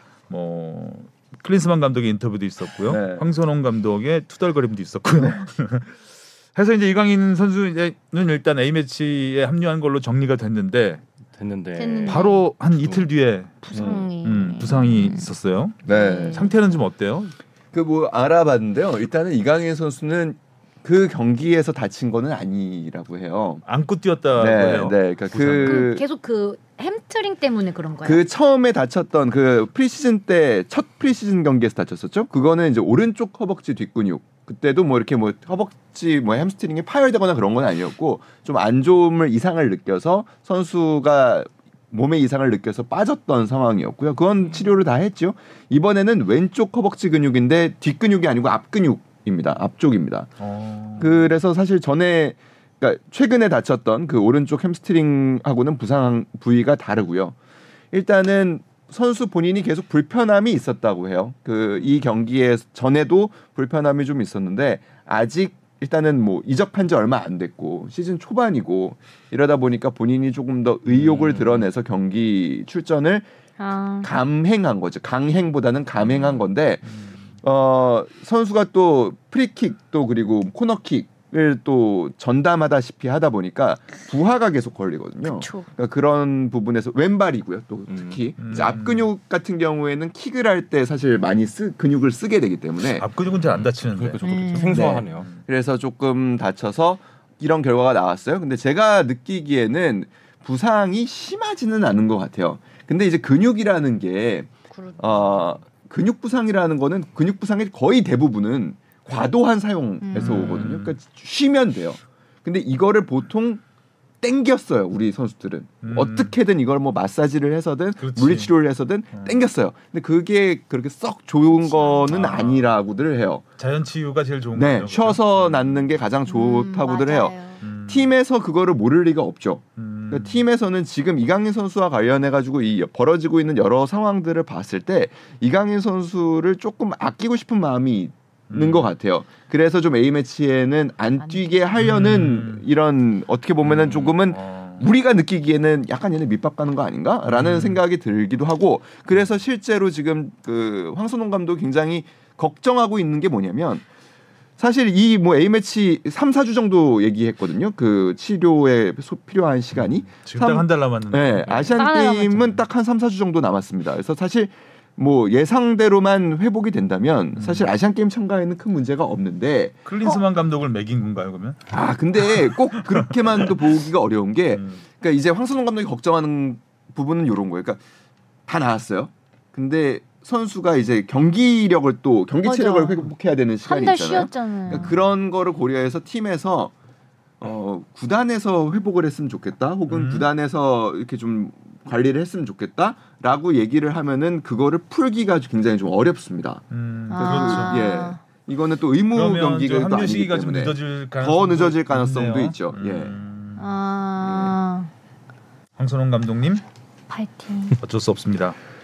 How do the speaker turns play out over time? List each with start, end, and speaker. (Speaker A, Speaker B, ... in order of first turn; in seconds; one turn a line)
Speaker A: 0.3-6.0
Speaker B: 2.9-3.3
Speaker A: 6.5-11.0
Speaker C: 11.3-12.2
Speaker D: 11.8-12.4
Speaker A: 12.1-17.3
Speaker C: 12.8-13.1
Speaker D: 13.6-15.3
Speaker B: 13.7-14.0
Speaker B: 15.8-16.5
Speaker D: 15.9-16.5
Speaker B: 17.7-23.6
Speaker A: 23.6-25.9
Speaker B: 24.4-26.0
Speaker D: 25.6-28.2
Speaker B: 28.0-50.3
Speaker A: 50.4-51.2
Speaker B: 51.0-57.4
Speaker B: 57.9-73.2
Speaker A: 70.9-71.7
Speaker D: 73.6-74.1
Speaker B: 74.0-76.8
Speaker B: 77.4-93.0
Speaker D: 85.2-85.7
Speaker C: 87.9-88.2
Speaker A: 88.4-89.1
Speaker A: 93.0-94.2
Speaker C: 93.8-95.3
Speaker D: 94.2-94.9
Speaker B: 94.7-113.6
Speaker A: 95.1-95.4
Speaker D: 104.7-105.3
Speaker D: 110.0-110.5
Speaker A: 110.1-110.9
Speaker B: 114.2-123.4
Speaker A: 115.8-116.3
Speaker A: 118.0-118.5
Speaker A: 119.1-119.4
Speaker A: 121.8-122.7
Speaker A: 123.6-126.0
Speaker B: 124.5-127.3
Speaker D: 126.3-127.6
Speaker A: 127.6-128.1
Speaker B: 127.9-153.8
Speaker A: 129.8-130.4
Speaker A: 138.5-138.9
Speaker D: 141.2-141.5
Speaker A: 141.8-142.6
Speaker A: 143.6-144.9
Speaker A: 147.2-147.8
Speaker B: 154.6-169.8
Speaker A: 160.1-161.8
Speaker D: 161.8-162.5
Speaker A: 167.3-167.7
Speaker A: 169.8-171.6
Speaker B: 171.7-177.8
Speaker A: 172.2-173.5
Speaker A: 174.5-174.8
Speaker B: 178.5-186.7
Speaker D: 182.4-183.1
Speaker D: 183.6-184.9
Speaker B: 187.4-196.6
Speaker A: 189.9-190.3
Speaker A: 196.7-197.9
Speaker D: 197.1-198.2
Speaker B: 197.2-203.2
Speaker A: 199.1-203.6
Speaker D: 203.6-204.9
Speaker A: 205.8-206.6
Speaker D: 207.1-207.8
Speaker A: 207.8-208.6